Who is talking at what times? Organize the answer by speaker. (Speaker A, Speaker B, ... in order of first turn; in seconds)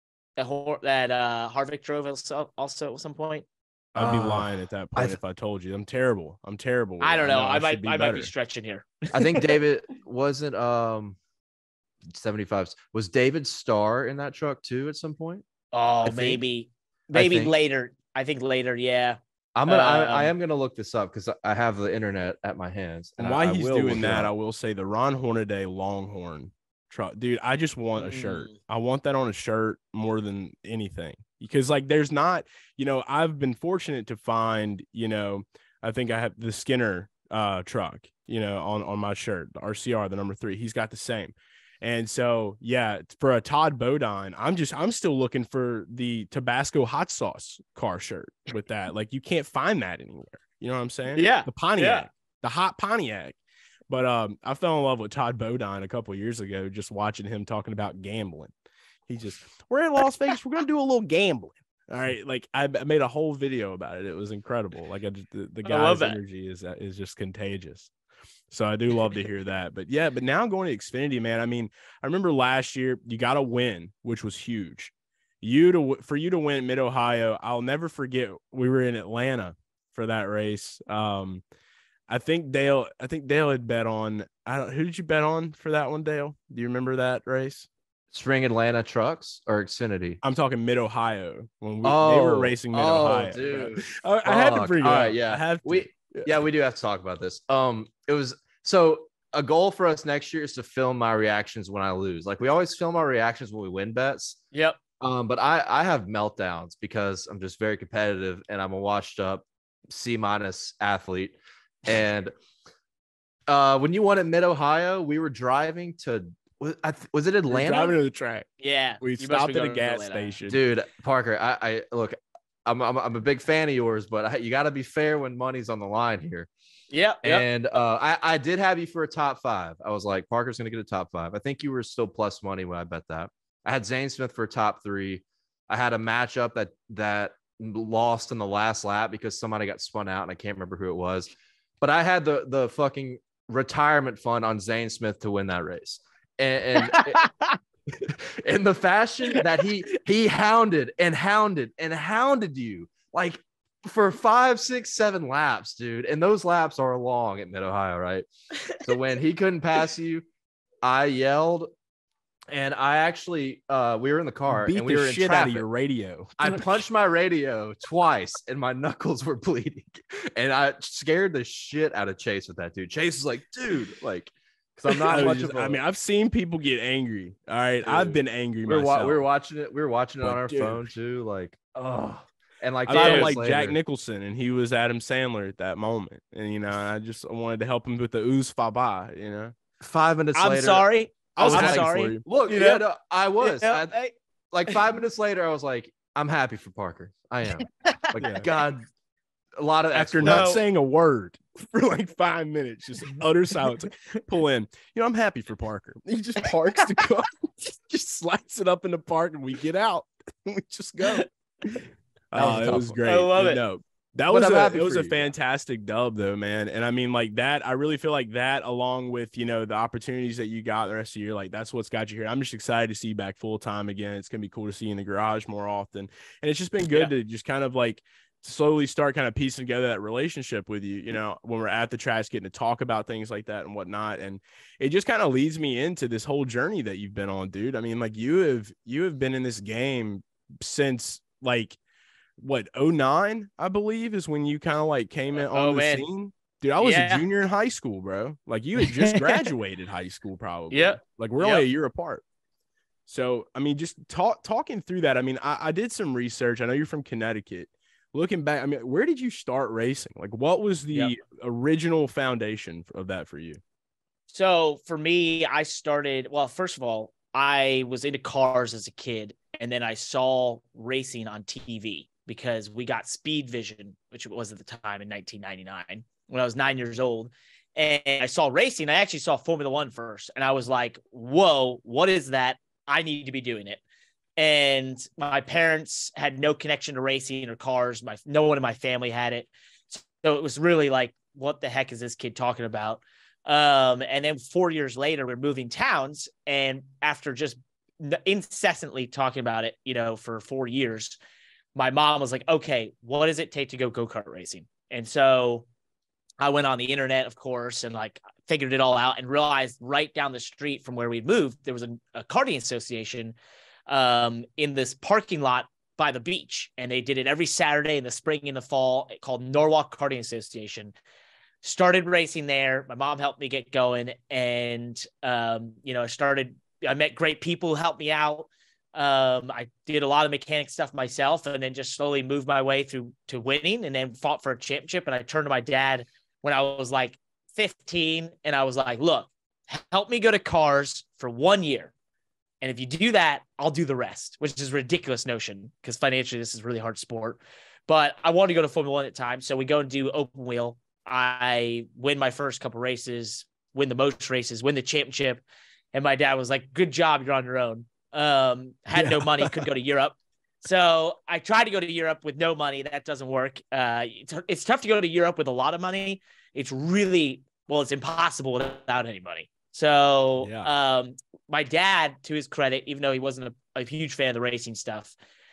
Speaker A: 0.4-3.4, 7.0-9.5, 15.7-20.3, 28.0-28.5, 51.1-52.0, 65.6-66.2, 104.5-104.8, 118.6-120.3, 126.9-127.4, 146.8-147.6, 149.3-149.6, 182.9-183.3, 190.3-192.8, 193.4-194.1, 197.8-198.2, 200.2-200.6, 212.4-213.6, 245.5-246.1, 246.8-247.2, 248.8-249.5, 250.7-251.7, 264.3-283.8, 284.4-301.2, 301.7-305.6, 306.4-313.3, 313.9-320.9, 321.6-341.9, 342.6-375.1
Speaker B: 3.9-8.3, 23.2-53.4, 53.9-58.5, 59.1-67.9, 68.5-81.4, 82.1-87.7, 90.2-96.4, 117.5-118.5, 119.0-120.6, 164.5-166.6, 174.9-179.2, 180.2-180.9, 182.8-189.5, 191.3-192.2, 198.2-198.4, 199.9-211.8, 212.3-241.8, 242.4-252.2, 253.1-263.6, 358.9-359.6, 370.4-370.7
Speaker C: 4.0-5.2, 9.1-11.2, 12.1-15.4, 16.0-16.4, 17.1-17.5, 19.5-24.3, 88.1-90.2, 91.8-104.4, 105.0-112.3, 113.5-117.9, 120.5-126.5, 127.2-141.3, 141.8-147.3, 147.9-160.2, 160.8-161.7, 162.5-165.7, 166.4-175.8, 177.8-183.8, 189.8-190.9, 191.4-194.0, 194.5-198.8, 199.6-200.6, 212.3-213.0, 214.3-215.3